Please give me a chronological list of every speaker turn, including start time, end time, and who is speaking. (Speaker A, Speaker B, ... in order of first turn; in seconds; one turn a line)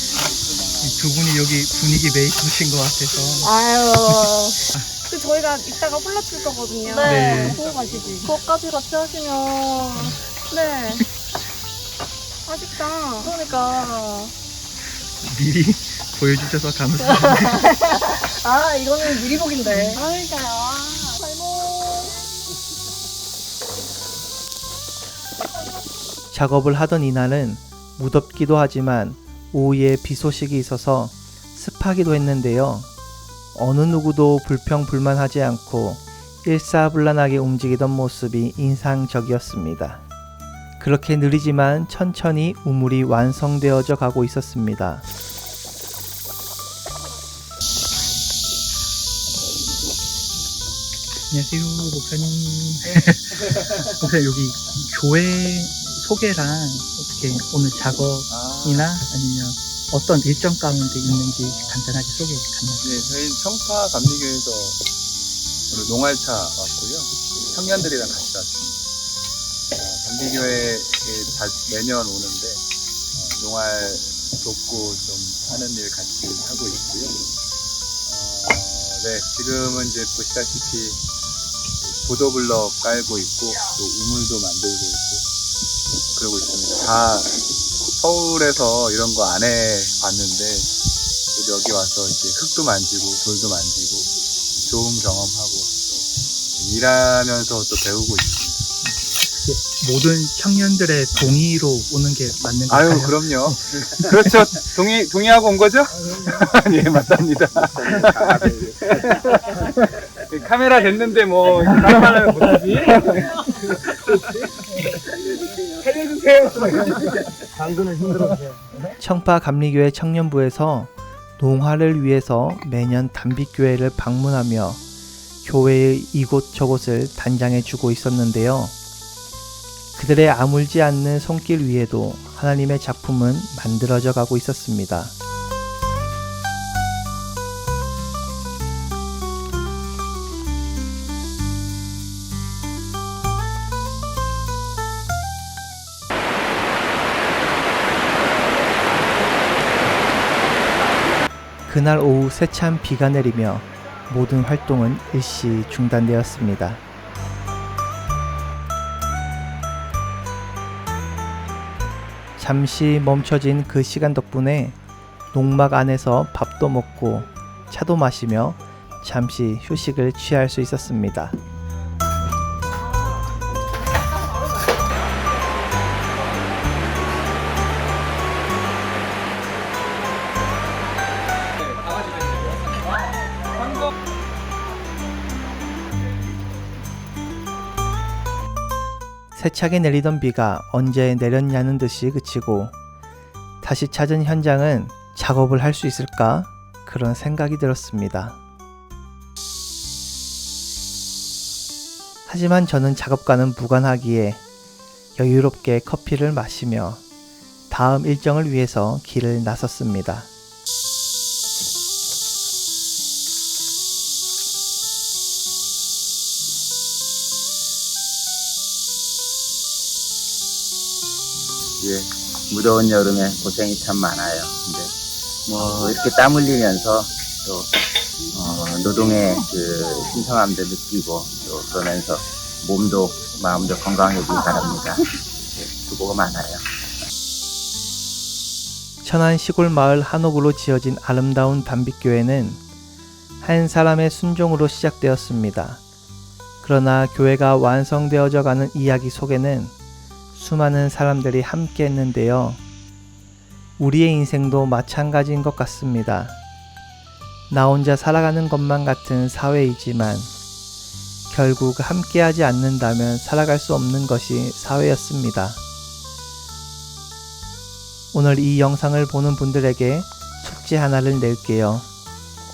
Speaker A: 0.8-3.5
Speaker B: 3.4-4.6
Speaker A: 4.0-4.9
Speaker C: 5.1-7.2
Speaker B: 6.7-11.0
Speaker A: 6.9-7.6
Speaker C: 7.8-8.3
Speaker B: 12.5-14.3
Speaker C: 12.9-13.3
Speaker A: 15.2-17.8
Speaker B: 17.1-22.1
Speaker A: 19.6-20.0
Speaker C: 20.2-21.2
Speaker D: 26.3-32.9
Speaker D: 33.5-40.0
Speaker D: 40.8-45.0
Speaker A: 51.3-62.9
Speaker E: 58.3-58.9
Speaker E: 62.8-64.8
Speaker E: 65.7-68.8
Speaker E: 69.7-77.3
Speaker E: 78.0-81.0
Speaker E: 81.8-85.3
Speaker E: 86.1-90.7
Speaker E: 91.3-99.0
Speaker A: 99.3-103.6
Speaker E: 102.7-114.2
Speaker E: 115.8-116.9
Speaker D: 119.0-124.8
Speaker D: 125.4-128.7
Speaker D: 129.9-135.1
Speaker D: 151.7-156.8
Speaker D: 162.4-164.8
Speaker D: 165.3-171.3
Speaker D: 189.3-192.7
Speaker D: 193.6-198.4
Speaker D: 202.3-204.4
Speaker D: 205.2-207.0
Speaker D: 207.7-210.3
Speaker F: 221.8-224.9
Speaker F: 225.4-236.6
Speaker D: 239.0-242.6
Speaker D: 243.4-245.8
Speaker D: 246.6-249.7
Speaker D: 250.3-252.6
Speaker D: 253.8-256.4
Speaker D: 257.5-260.3
Speaker D: 261.3-265.6
Speaker D: 268.1-271.9